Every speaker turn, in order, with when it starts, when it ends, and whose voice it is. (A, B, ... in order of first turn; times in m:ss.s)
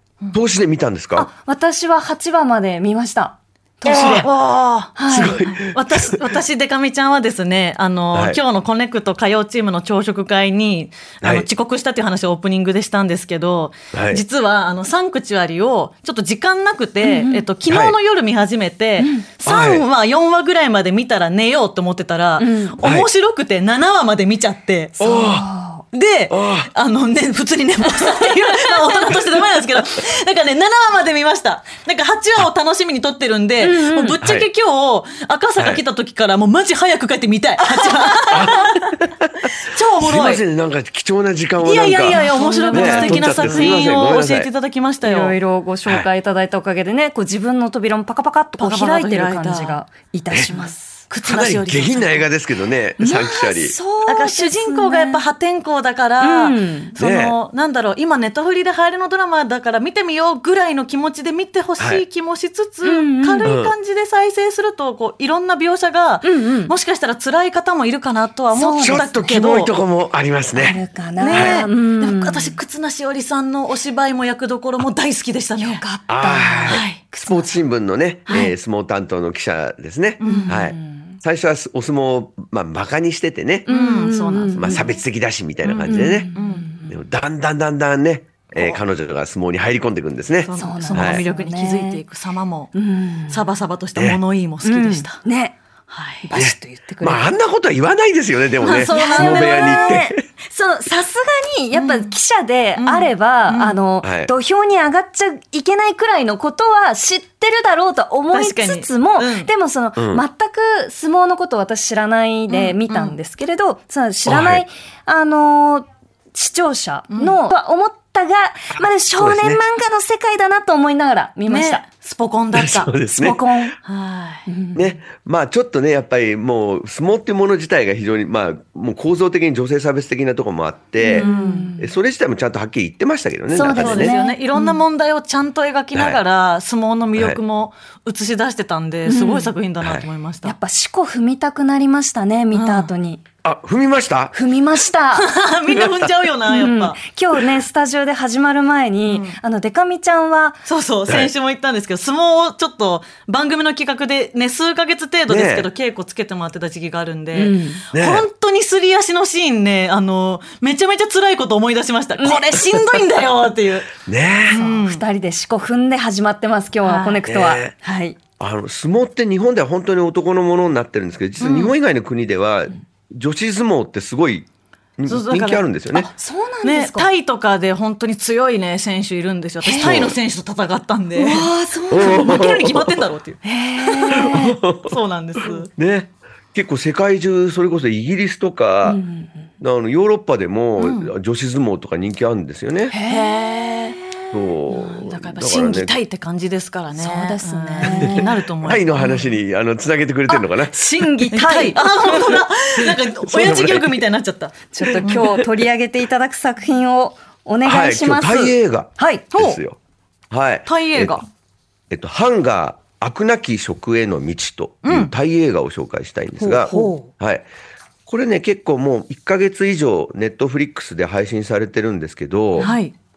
0:00.3-0:01.3 A
0:01.2-0:04.3 B
0:03.8-0:25.0 C
0:03.9-0:04.3 A
0:05.0-0:05.4 B
0:05.1-0:06.3 A
0:08.1-0:08.4 A
0:11.2-0:11.5 A
0:13.9-0:14.2 A
0:17.0-0:17.4 B
0:17.7-0:18.0 A
0:19.0-0:19.3 B
0:19.4-0:19.8 A
0:22.4-0:22.8 B
0:22.8-0:23.1 A
0:25.0-0:25.5 A
0:25.0-0:25.8 B
0:25.9-0:38.9 C
0:26.3-0:26.7 A
0:27.8-0:29.2 B
0:33.6-0:34.2 B
0:34.2-0:34.5 A
0:35.6-0:35.8 A
0:37.7-0:38.5 B
0:38.3-0:44.5 A
0:39.6-0:40.4 C
0:41.6-0:45.4 C
0:42.1-0:44.0 B
0:45.0-0:51.0 B
0:48.6-0:49.8 C
0:50.5-0:52.3 C
0:51.2-0:53.8 A
0:53.0-0:55.2 B
0:54.0-1:09.7 C
0:56.2-0:56.9 B
0:57.0-0:57.4 A
1:01.8-1:02.0 A
1:02.8-1:03.6 B
1:03.4-1:03.8 A
1:06.2-1:06.7 B
1:08.5-1:09.2 B
1:08.8-1:11.6 A
1:10.5-1:12.6 B
1:11.2-1:15.8 C
1:15.6-1:17.6 B
1:16.1-1:23.7 A
1:16.7-1:17.0 C
1:18.3-1:18.6 B
1:20.2-1:20.6 C
1:20.2-1:21.2 B
1:23.7-1:25.0 C
1:23.7-1:25.0 B
1:24.6-1:26.3 A
1:25.6-1:26.7 C
1:25.8-1:27.0 B
1:26.9-1:31.2 A
1:28.5-1:28.8 C
1:30.4-1:32.7 C
1:30.6-1:32.0 B
1:32.7-1:33.5 B
1:33.3-1:35.2 C
1:34.0-1:34.2 A
1:34.6-1:35.6 B
1:35.9-1:36.3 C
1:36.2-1:37.3 B
1:36.4-1:40.2 A
1:38.6-1:40.0 C
1:38.6-2:01.8 B
1:41.7-1:42.2 C
1:42.8-1:43.8 C
1:44.0-1:44.3 A
1:48.3-1:49.5 C
1:50.0-1:50.2 A
1:52.5-1:53.2 C
1:54.3-1:54.6 A
1:57.1-1:57.4 C
1:59.1-1:59.6 A
2:01.5-2:02.9 C
2:02.5-2:03.7 A
2:03.1-2:03.8 B
2:03.8-2:04.5 C
2:04.5-2:05.0 B
2:04.8-2:14.2 A
2:11.0-2:12.0 B
2:11.1-2:11.7 C
2:13.5-2:14.8 B
2:13.7-2:20.6 C
2:15.9-2:16.2 A
2:17.2-2:17.4 A
2:19.1-2:19.5 B
2:19.8-2:20.1 A
2:20.4-2:23.2 B
2:22.5-2:22.9 C
2:23.4-2:24.4 A
2:24.3-2:25.3 B
2:25.2-2:27.0 C
2:25.7-2:26.3 A
2:26.5-2:30.6 B
2:29.1-2:29.4 C
2:30.6-2:44.0 C
2:31.1-2:31.3 A
2:35.3-2:35.7 A
2:37.3-2:37.9 B
2:37.9-2:38.3 A
2:42.2-2:43.0 A
2:44.0-2:44.6 A
2:44.5-2:45.0 C
2:44.5-2:48.2 B
2:46.8-2:47.2 C
2:47.2-2:47.8 A
2:48.4-2:56.1 A
2:51.4-2:51.8 C
2:55.1-2:56.1 C
2:56.0-2:57.1 B
2:56.6-3:03.4 C
2:59.6-3:00.1 B
2:59.7-3:00.2 A
3:01.2-3:02.4 B
3:01.9-3:03.1 A
3:03.4-3:04.6 B
3:03.9-3:05.0 A
3:04.8-3:05.7 C
3:05.7-3:09.0 A
3:08.8-3:09.5 B
3:09.6-3:13.0 A
3:10.8-3:11.1 C
3:12.9-3:13.4 B
3:13.0-3:19.4 C
3:14.3-3:16.0 A
3:17.0-3:18.3 B
3:17.8-3:21.3 A
3:20.3-3:22.4 B
3:21.3-3:25.3 C
3:22.8-3:24.0 A
3:24.7-3:29.3 B
3:24.8-3:25.4 A
3:27.6-3:29.8 A
3:29.3-3:29.6 C
3:30.3-3:31.2 A
3:30.6-3:31.3 C
3:31.9-3:37.5 A
3:34.8-3:35.1 C
3:36.4-3:37.0 C
3:36.6-3:37.1 B
3:38.1-3:42.7 A
3:42.6-3:42.9 C